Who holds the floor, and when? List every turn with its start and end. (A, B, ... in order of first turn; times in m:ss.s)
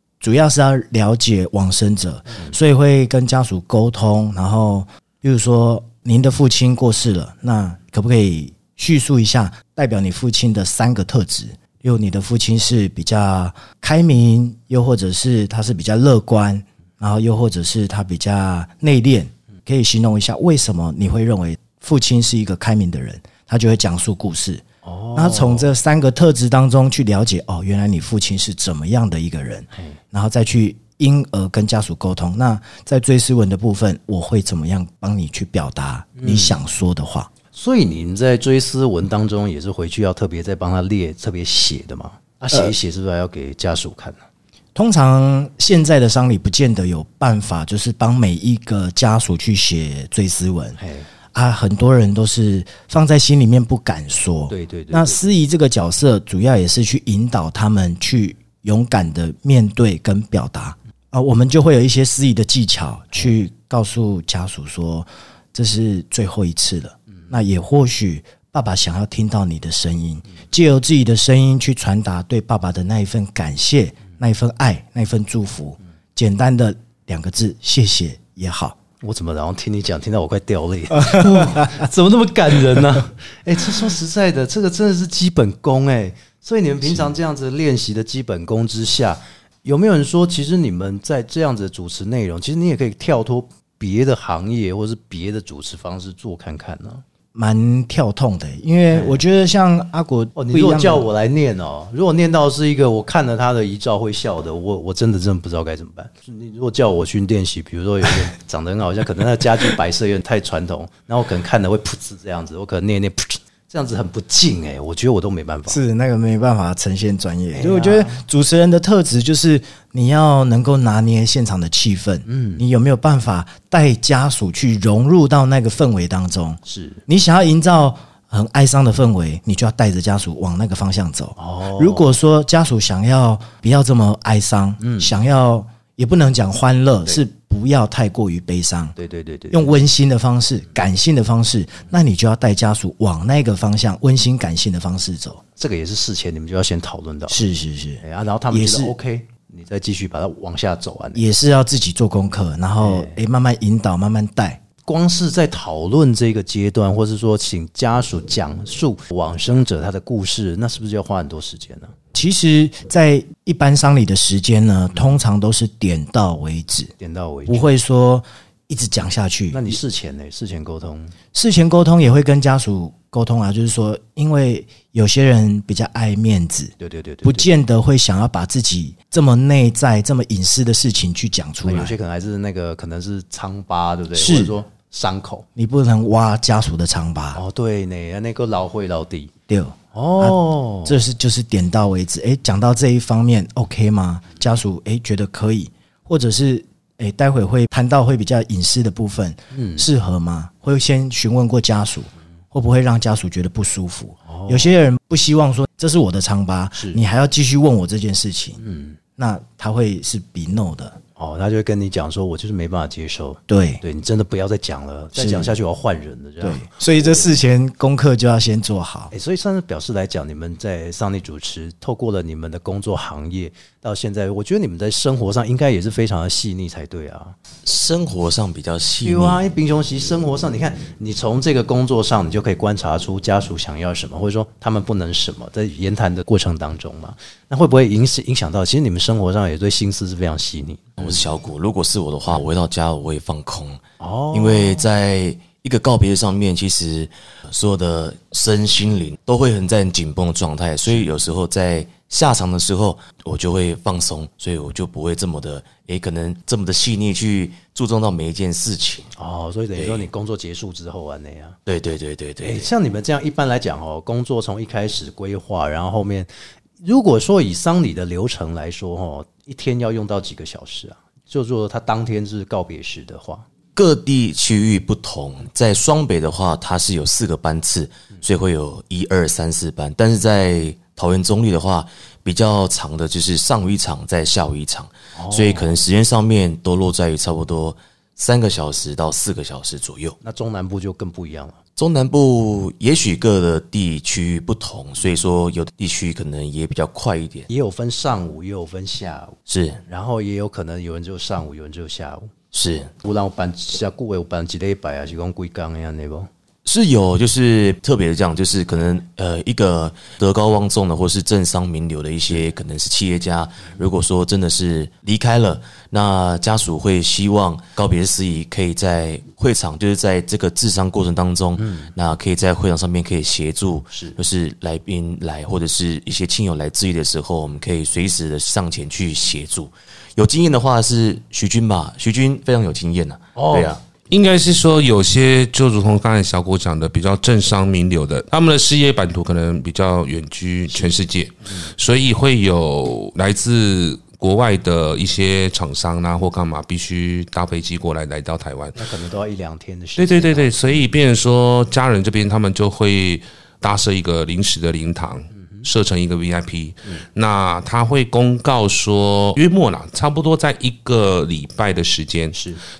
0:00.2-0:24.6 A
0:24.8-0:25.7 B
0:25.1-0:37.3 A
0:36.2-0:36.6 B
0:37.5-0:44.2 B
0:44.7-0:50.8 A
0:50.8-0:51.1 B
0:51.3-1:18.8 A
0:54.5-0:55.2 B
1:19.0-1:37.0 B
1:21.0-1:21.8 A
1:37.3-1:41.0 A
1:38.9-1:39.2 B
1:40.4-1:55.8 B
1:55.7-2:19.0 A
1:57.5-1:58.2 B
2:02.2-2:02.6 B
2:06.6-2:07.0 B
2:11.4-2:12.0 B
2:14.8-2:15.2 B
2:19.0-2:19.8 B
2:19.5-2:25.4 A
2:25.6-2:27.4 B
2:27.3-2:28.9 A
2:28.0-2:31.2 B
2:31.1-2:34.6 A
2:32.8-2:33.2 B
2:34.8-2:41.9 B
2:42.1-2:46.9 A
2:47.0-2:47.7 B
2:47.5-2:49.8 A
2:49.5-2:51.1 B
2:51.3-3:01.9 A
2:56.8-2:57.5 B
3:01.6-3:05.4 B
3:04.1-3:04.5 A
3:05.6-3:07.4 A
3:07.3-3:09.3 B
3:09.5-3:28.6 A
3:09.9-3:11.0 B
3:19.5-3:19.8 B
3:24.2-3:24.7 B
3:26.7-3:27.0 B
3:28.6-3:29.0 B
3:29.2-3:31.0 A
3:31.2-3:37.3 B
3:33.5-3:33.8 A
3:35.1-3:35.6 A
3:36.4-3:39.1 A
3:39.1-3:47.4 B
3:47.6-3:49.4 C
3:49.0-4:01.2 B
4:01.0-4:19.1 C
4:04.0-4:04.9 B
4:19.2-4:21.6 B
4:19.8-4:20.0 C
4:21.6-4:22.7 C
4:22.4-4:26.3 B
4:26.8-4:33.4 B
4:33.7-4:50.2 C
4:45.1-4:45.8 B
4:50.2-4:51.6 B
4:51.8-4:57.5 C
4:57.5-5:02.3 B
4:59.5-4:59.8 C
5:02.5-5:02.9 C
5:02.9-5:06.3 B
5:06.6-5:33.8 C
5:21.6-5:21.9 B
5:23.9-5:24.2 B
5:33.3-5:33.8 B
5:34.1-5:48.8 D
5:40.7-5:40.9 B
5:48.8-5:50.7 B
5:50.0-6:02.4 D
6:02.3-6:02.6 B